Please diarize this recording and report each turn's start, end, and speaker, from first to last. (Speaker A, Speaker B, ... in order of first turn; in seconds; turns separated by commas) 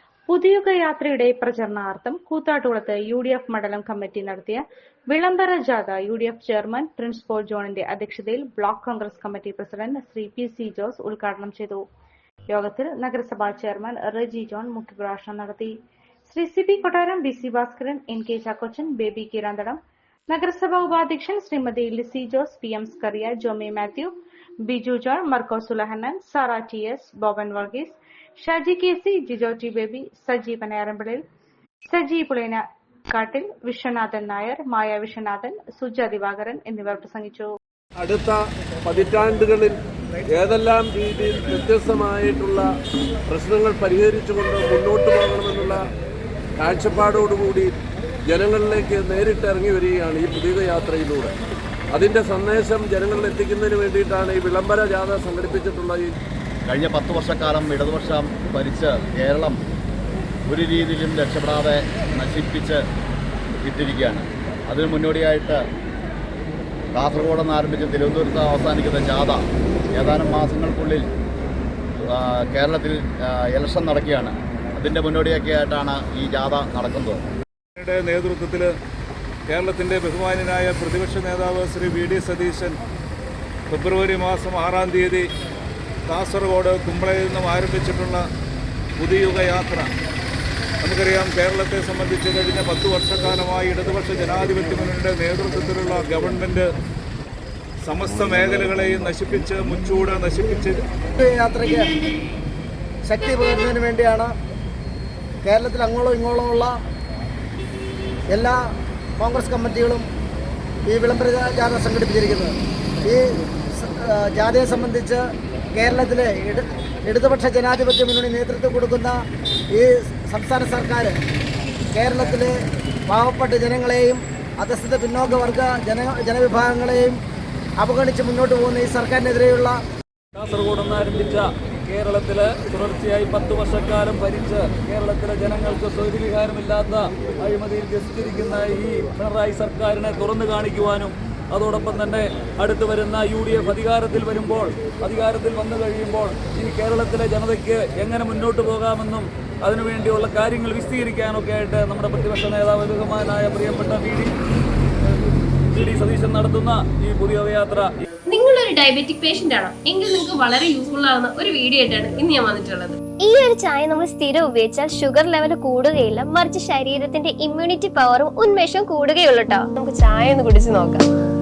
Speaker A: 0.3-11.8, Speaker A: 12.5-15.8, Speaker A: 16.3-19.8, Speaker A: 20.3-24.1, Speaker A: 24.6-31.2, Speaker A: 31.9-37.5, Speaker B: 38.0-39.8, Speaker B: 40.3-42.7, Speaker B: 43.3-45.9, Speaker B: 46.6-47.7, Speaker B: 48.3-51.4, Speaker B: 51.9-56.1, Speaker C: 56.7-59.6, Speaker C: 60.5-62.8, Speaker C: 63.6-65.6, Speaker C: 66.9-69.4, Speaker C: 69.9-71.1, Speaker C: 72.1-77.2, Speaker D: 77.8-78.7, Speaker D: 79.5-82.8, Speaker D: 83.7-85.3, Speaker D: 86.1-88.2, Speaker D: 89.0-89.9, Speaker D: 90.8-96.7, Speaker D: 97.9-100.8, Speaker E: 101.2-101.9, Speaker E: 103.1-104.3, Speaker E: 105.4-106.7, Speaker E: 108.3-108.6, Speaker E: 109.2-110.1, Speaker E: 110.9-115.2, Speaker E: 115.8-119.2, Speaker E: 119.7-121.2, Speaker E: 122.0-122.5, Speaker E: 123.1-127.2, Speaker E: 127.8-129.8, Speaker F: 130.3-154.3, Speaker F: 155.7-157.9, Speaker G: 158.3-163.0, Speaker H: 163.2-171.0, Speaker G: 168.8-170.5